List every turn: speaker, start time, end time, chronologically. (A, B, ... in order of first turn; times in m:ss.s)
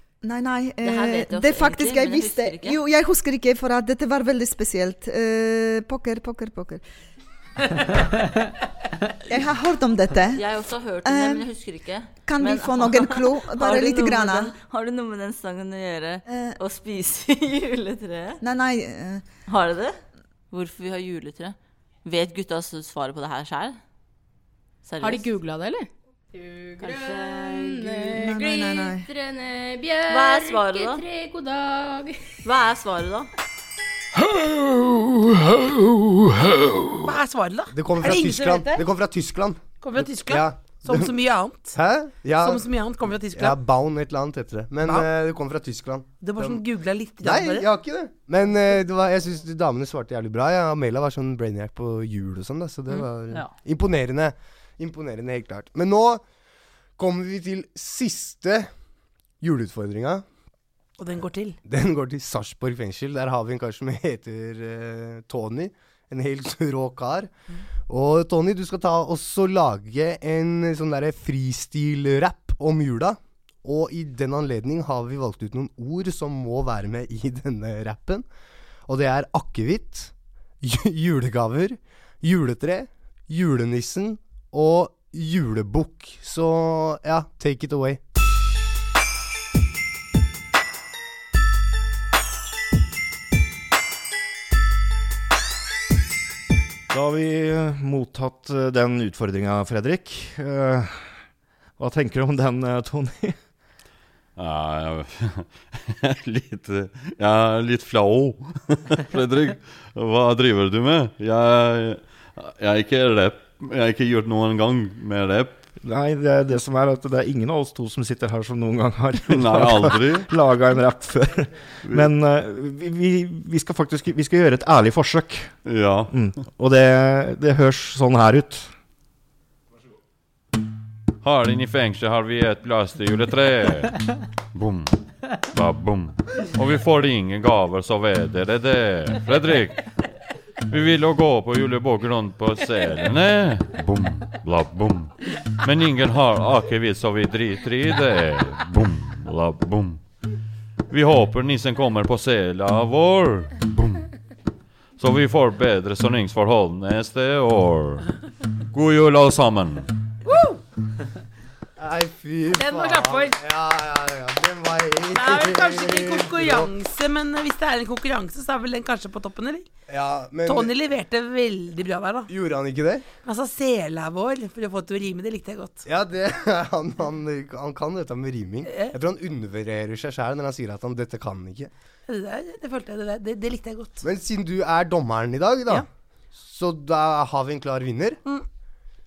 0:00.2-0:06.8 A
0:00.8-0:02.8 B
0:09.3-0:11.5 A
0:10.4-0:18.4 B
0:12.2-0:14.6 A
0:16.3-0:16.6 A
0:18.4-0:19.3 A
0:19.4-0:23.8 B
0:24.8-0:25.4 B
0:25.0-0:32.4 C
0:26.8-0:27.9 B
0:28.2-0:29.1 A
0:30.1-0:31.0 B
0:32.4-0:33.3 B
0:37.0-0:38.8 D
0:37.7-0:41.1 E
0:39.8-0:41.8 D
0:41.7-0:42.7 E
0:42.4-0:43.6 D
0:43.3-0:46.6 E
0:46.2-0:47.7 D
0:47.2-0:56.2 E
0:57.0-0:58.7 E
0:59.4-1:00.2 E
1:01.0-1:01.6 D
1:01.6-1:07.3 E
1:07.9-1:18.3 E
1:18.9-1:28.0 E
1:36.9-1:43.5 F
1:44.4-1:55.6 G
1:55.8-2:08.7 F
1:59.3-2:00.3 G
2:05.6-2:06.1 G
2:11.2-2:19.9 G
2:20.7-2:30.0 G
2:30.9-2:34.1 G
2:35.0-2:38.2 G
2:38.7-2:39.9 G
2:41.8-2:46.7 E
2:42.6-2:43.4 D
2:45.1-2:49.7 D
2:49.9-2:50.7 E
2:50.5-2:52.3 D
2:52.3-2:53.1 E
2:53.2-2:55.8 D
2:55.8-3:01.7 E
2:58.7-2:59.0 D
3:02.1-3:04.0 D
3:04.0-3:08.2 E